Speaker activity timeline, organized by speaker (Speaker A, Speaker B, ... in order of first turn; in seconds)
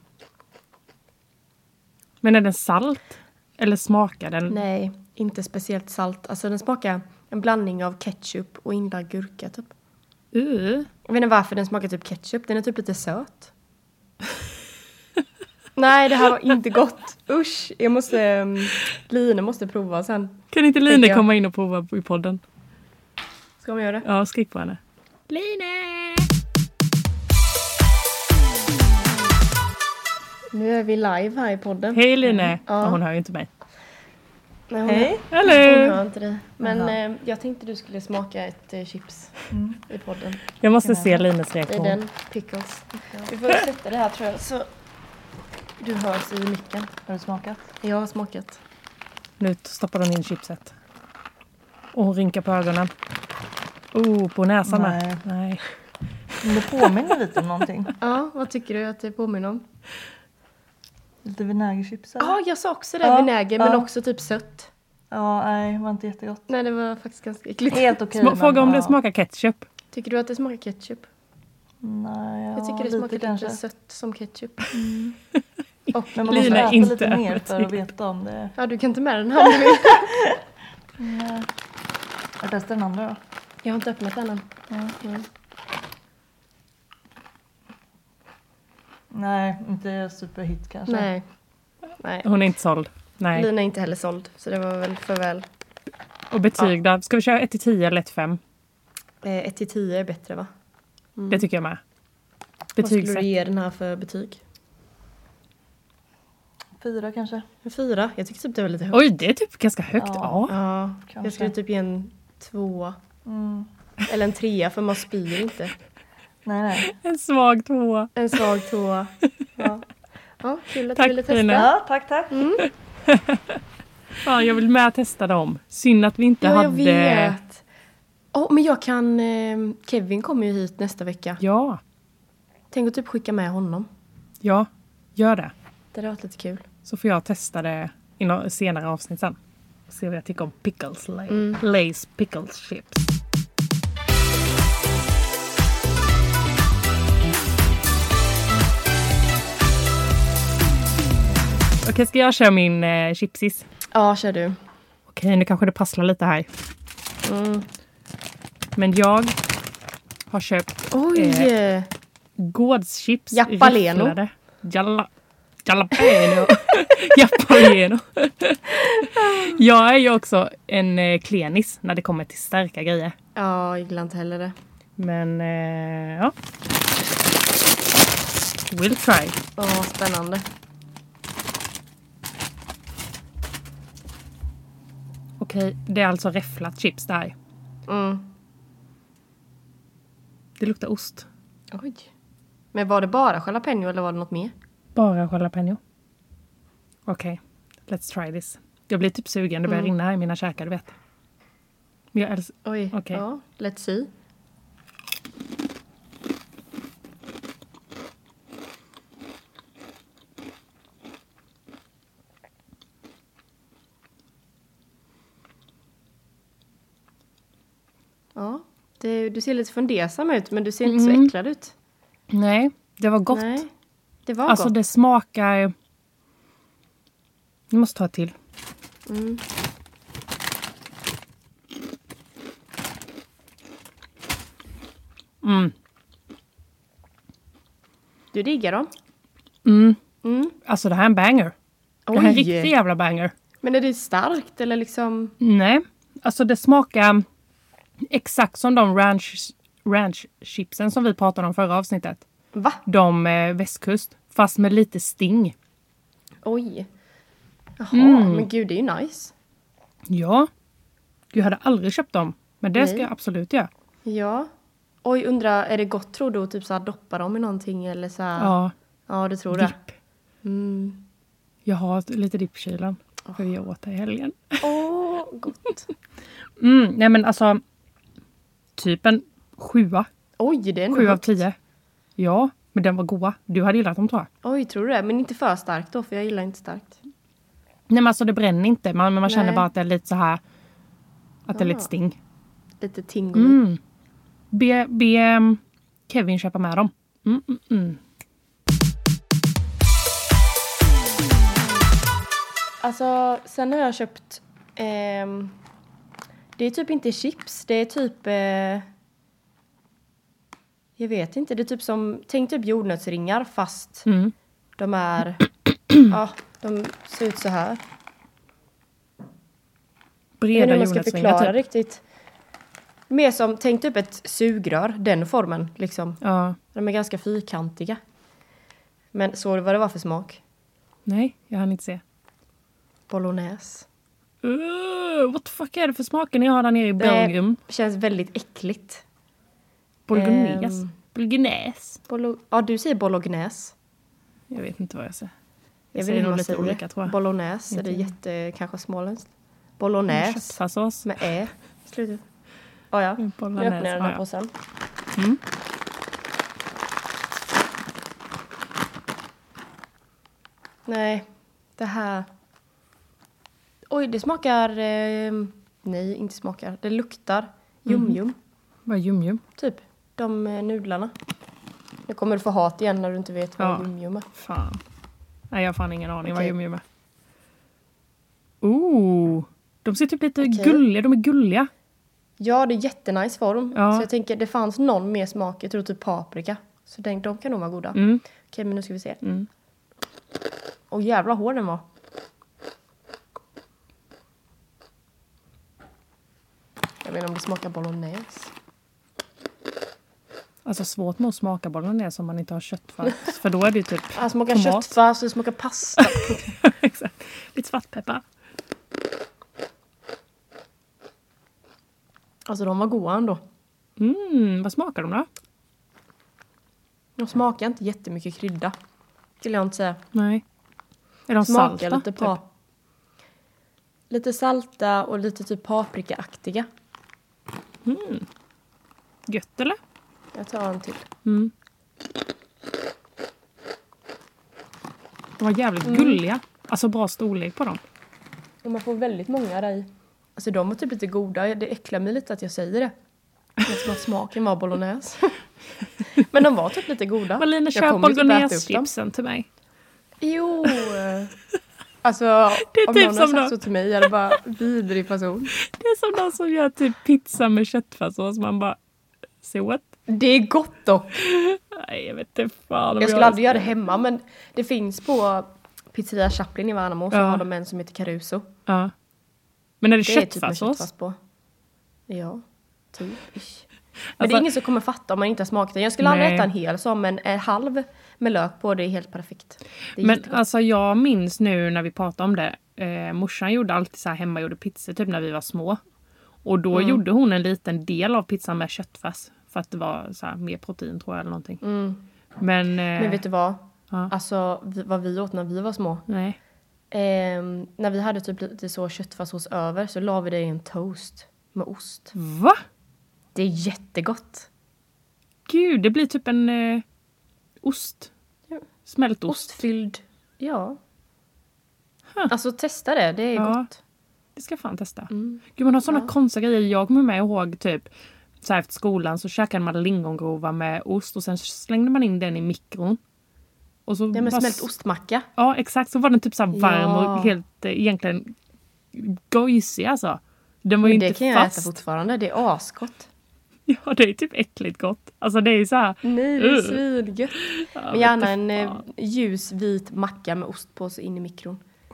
Speaker A: 2.2-4.6, 10.3-10.9, 20.5-22.4, 24.0-26.3, 31.9-33.5, 35.3-36.0, 40.6-42.0, 49.4-50.7, 51.9-52.9, 53.9-55.6, 68.2-69.7, 76.1-77.7, 92.2-93.5, 96.3-98.4, 101.3-101.8, 102.8-103.2, 108.9-110.5, 116.9-118.4, 121.0-121.7, 123.0-123.6, 124.2-127.4, 131.4-131.8, 134.4-135.5, 136.8-139.3, 139.9-143.1, 151.8-153.7, 155.1-156.5, 158.8-159.4, 160.3-161.5, 162.4-165.1, 165.6-173.1, 175.0-176.3, 178.7-179.4, 185.4-187.3, 190.6-191.3, 194.9-195.8, 197.1-200.9, 202.1-203.2, 220.8-221.3, 222.3-223.6, 224.5-225.7, 227.7-228.3, 235.4-235.7, 239.6-240.0, 240.6-241.5, 242.1-243.3, 245.4-247.2, 248.1-252.2, 252.8-255.5, 257.9-258.5, 260.1-260.5, 261.3-263.7, 268.4-268.7, 269.5-269.8, 271.6-274.7, 276.6-277.6, 278.8-280.1, 280.9-281.6, 282.2-284.3, 287.9-290.4, 291.5-292.2, 293.3-293.8, 294.5-298.0, 314.1-314.3, 320.4-321.5, 326.2-326.6, 331.1-332.0, 334.4-337.6, 340.1-342.0, 344.5-345.3, 345.9-347.1, 347.7-348.1, 350.1-351.1, 353.2-354.2, 367.9-368.2, 368.9-369.4, 373.6-374.8, 375.5-376.8, 378.6-381.7, 383.7-384.1, 387.9-388.2, 389.2-389.5, 400.6-404.9, 406.0-408.2, 414.0-415.3, 420.1-420.4, 421.3-422.4, 427.8-428.2, 429.3-429.8, 431.2-431.5, 435.4-437.8, 447.4-449.5, 452.6-453.5, 455.6-458.8, 459.4-459.9, 461.1-463.7, 467.1-467.4, 468.7-468.9, 469.8-470.9, 474.2-474.4, 476.0-476.5, 480.0-485.8, 486.4-491.6, 492.4-493.2, 496.1-496.4, 502.1-502.6, 505.5-506.8, 507.6-508.1, 508.9-509.6, 513.4-513.6, 514.4-517.9, 518.4-523.0, 523.9-524.6, 525.4-528.3, 528.9-531.7, 533.7-536.8, 537.4-538.8
Speaker B: 4.5-9.7, 11.1-13.5, 15.8-21.2, 23.6-24.1, 30.5-33.0, 34.7-39.3, 39.8-40.4, 41.7-44.7, 45.8-46.9, 47.8-48.6, 58.0-59.6, 62.2-64.7, 66.5-67.9, 69.9-71.1, 72.5-75.0, 75.9-76.8, 78.6-80.1, 83.6-84.5, 90.9-91.2, 92.0-92.3, 93.3-95.5, 99.2-100.5, 101.2-101.4, 102.8-104.4, 107.6-109.2, 110.5-113.0, 114.1-115.7, 118.2-119.8, 120.4-121.7, 122.3-122.7, 126.4-127.6, 128.3-131.4, 132.7-133.9, 135.9-136.6, 141.3-141.6, 153.9-154.6, 157.2-157.7, 160.9-161.9, 163.3-164.1, 166.2-166.7, 168.8-169.6, 173.3-174.5, 179.6-180.4, 187.9-188.3, 191.7-192.1, 192.7-194.5, 199.7-199.9, 202.6-204.1, 218.3-221.7, 223.3-223.7, 224.2-224.7, 229.1-229.4, 238.3-238.9, 240.2-240.5, 242.1-242.7, 243.6-245.3, 252.5-252.8, 256.4-256.9, 257.8-259.3, 262.8-263.1, 264.0-264.5, 265.0-268.5, 269.1-269.8, 270.4-271.0, 274.6-275.9, 280.4-281.4, 284.4-287.0, 289.2-289.6, 291.5-291.9, 292.8-293.6, 302.8-305.6, 306.6-308.9, 311.0-314.1, 314.8-315.4, 316.1-317.8, 320.5-322.0, 323.1-326.2, 326.7-328.0, 329.1-330.4, 333.1-333.9, 337.0-339.0, 340.1-340.9, 342.1-343.7, 345.9-352.2, 352.9-354.5, 360.9-362.3, 363.9-368.4, 369.6-371.1, 372.1-374.3, 376.2-376.5, 380.4-380.8, 382.4-389.2, 390.9-391.8, 397.0-398.5, 404.1-406.5, 412.5-413.4, 417.2-418.7, 419.4-420.0, 421.4-422.4, 424.1-426.7, 430.3-431.1, 435.8-436.2, 438.6-442.9, 443.6-445.4, 446.1-448.9, 450.2-451.3, 452.0-455.5, 460.1-461.2, 463.0-468.5, 470.0-471.2, 472.1-473.7, 474.2-480.4, 486.7-487.0, 491.6-492.0, 492.9-496.0, 496.9-502.1, 503.3-504.5, 509.3-510.8, 512.3-513.8, 515.1-516.1, 524.1-525.2, 526.5-527.3, 530.8-533.1, 536.0-541.6
Speaker C: 34.8-35.3, 36.6-36.9, 39.5-39.8, 40.8-41.3, 47.0-47.7, 54.6-55.2, 56.4-57.9, 61.2-62.4, 63.0-63.9, 65.1-66.4, 67.7-69.0, 71.8-73.6, 74.7-75.1, 76.1-78.5, 79.6-80.3, 81.0-81.5, 82.4-83.2, 84.7-85.0, 89.1-91.1, 106.8-107.5, 110.0-110.5, 111.1-111.5, 113.2-113.7, 116.4-116.9, 121.5-122.5